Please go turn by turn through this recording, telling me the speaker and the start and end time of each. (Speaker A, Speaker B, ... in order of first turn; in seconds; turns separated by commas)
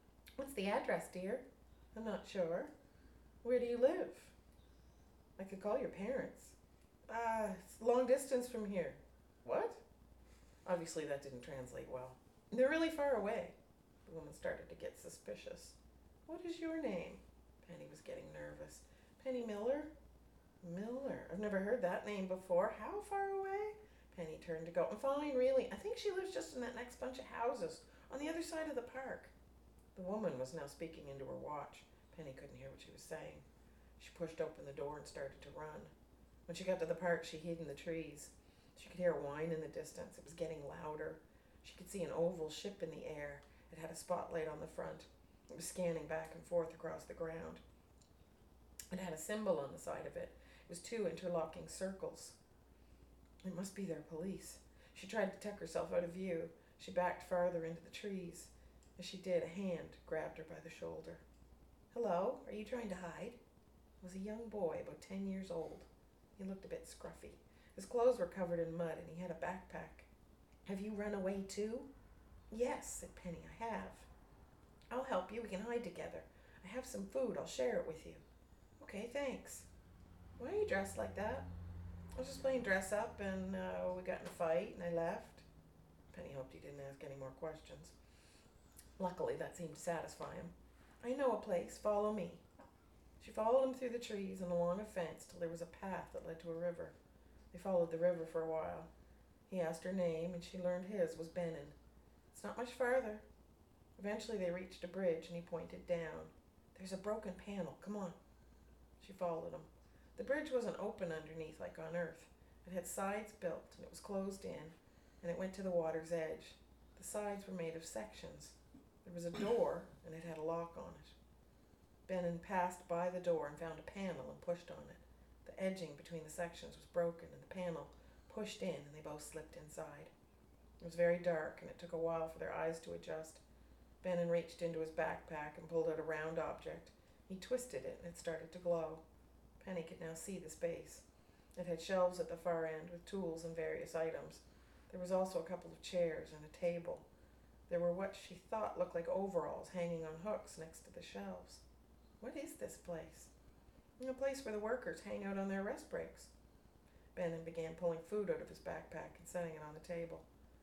Speaker A: 0.4-2.7, Speaker A: 3.4-4.3, Speaker A: 5.4-6.5, Speaker A: 7.1-9.8, Speaker A: 10.7-19.9, Speaker A: 20.6-29.3, Speaker A: 29.9-33.4, Speaker A: 34.0-35.9, Speaker A: 36.5-47.6, Speaker A: 48.9-52.4, Speaker A: 53.4-61.2, Speaker A: 61.9-63.4, Speaker A: 64.0-70.1, Speaker A: 70.7-71.9, Speaker A: 72.5-74.1, Speaker A: 74.9-78.2, Speaker A: 78.8-79.7, Speaker A: 80.4-81.5, Speaker A: 82.2-85.5, Speaker A: 86.1-87.9, Speaker A: 89.0-92.4, Speaker A: 93.2-96.9, Speaker A: 97.5-98.9, Speaker A: 99.5-101.8, Speaker A: 102.3-103.2, Speaker A: 104.0-108.2, Speaker A: 109.0-121.1, Speaker A: 122.1-130.1, Speaker A: 130.8-133.4, Speaker A: 134.0-139.0, Speaker A: 139.6-141.0, Speaker A: 141.6-147.1, Speaker A: 147.7-151.6, Speaker A: 152.2-153.3, Speaker A: 154.0-156.3, Speaker A: 157.1-160.2